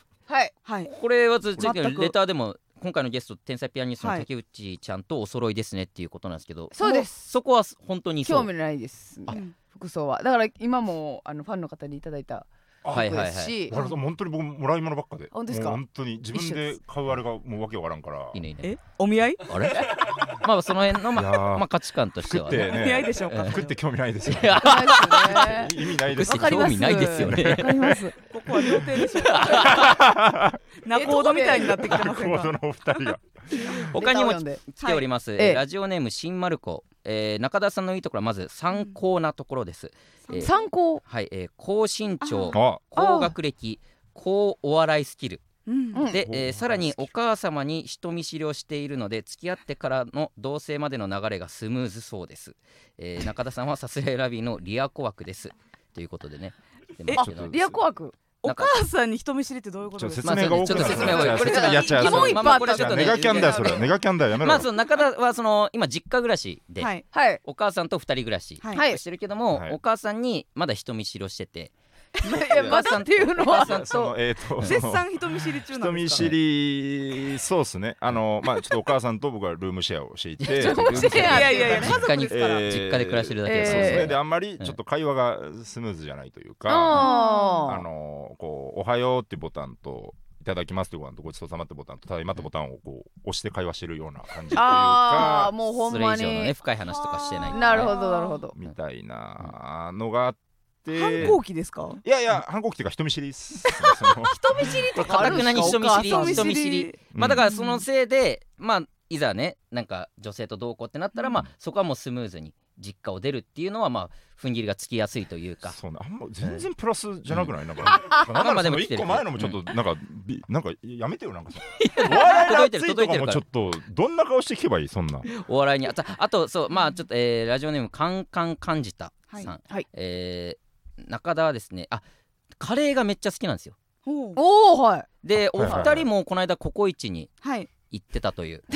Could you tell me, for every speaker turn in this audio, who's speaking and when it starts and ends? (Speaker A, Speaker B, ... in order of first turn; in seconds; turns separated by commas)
Speaker A: 0.3-0.5, Speaker B: 0.7-0.9, Speaker C: 0.9-8.5, Speaker B: 1.7-2.0, Speaker B: 4.0-4.3, Speaker A: 6.7-7.1, Speaker A: 8.2-13.8, Speaker B: 9.3-9.6, Speaker D: 12.8-18.4, Speaker C: 12.9-13.6, Speaker B: 13.7-14.0, Speaker A: 15.3-15.8, Speaker A: 16.3-16.7, Speaker C: 18.3-18.7, Speaker B: 18.6-19.5, Speaker C: 19.4-23.6, Speaker D: 21.1-21.7, Speaker D: 22.2-28.1, Speaker B: 22.5-23.8, Speaker C: 24.2-27.7, Speaker A: 24.6-28.2, Speaker B: 28.2-29.9, Speaker D: 28.7-30.6, Speaker C: 29.2-29.9, Speaker B: 30.8-32.5, Speaker A: 30.9-32.0, Speaker D: 31.9-33.9, Speaker C: 33.7-45.5, Speaker A: 33.9-34.6, Speaker B: 34.8-35.1, Speaker A: 35.4-35.6, Speaker B: 40.3-40.7, Speaker A: 40.4-41.0, Speaker B: 42.2-42.6, Speaker D: 42.5-42.8, Speaker A: 43.0-43.3, Speaker B: 45.7-46.1, Speaker A: 45.9-46.2, Speaker C: 46.1-57.8, Speaker D: 46.1-47.1, Speaker A: 57.2-58.2, Speaker D: 57.2-57.8, Speaker B: 58.4-61.9, Speaker C: 58.4-58.8, Speaker D: 60.0-64.7, Speaker C: 60.2-63.9, Speaker A: 60.9-63.9, Speaker C: 64.4-74.0, Speaker B: 66.8-67.1, Speaker A: 67.1-67.4, Speaker B: 68.6-68.9, Speaker A: 68.7-69.0, Speaker D: 69.5-69.8, Speaker A: 72.2-73.8, Speaker D: 72.5-75.2, Speaker B: 73.9-76.3, Speaker D: 75.7-87.1, Speaker C: 80.4-84.8, Speaker A: 80.5-82.0, Speaker B: 81.1-82.7, Speaker A: 83.5-84.1, Speaker A: 86.7-87.8, Speaker B: 86.9-87.7, Speaker D: 87.6-95.5, Speaker A: 94.5-96.5, Speaker C: 95.7-97.9, Speaker B: 96.9-98.4, Speaker A: 97.5-98.6, Speaker D: 98.5-101.4, Speaker B: 100.9-102.0, Speaker D: 102.0-105.4, Speaker A: 103.7-106.5, Speaker C: 105.0-115.8, Speaker B: 105.1-107.8, Speaker D: 107.1-107.4, Speaker D: 115.7-125.3, Speaker C: 117.3-119.6, Speaker C: 121.7-123.4, Speaker C: 125.3-132.0, Speaker C: 132.6-133.8, Speaker B: 134.1-134.4, Speaker A: 134.4-135.1, Speaker C: 135.2-137.3, Speaker D: 135.6-136.1, Speaker A: 135.7-135.9, Speaker B: 137.4-137.7, Speaker C: 137.9-138.7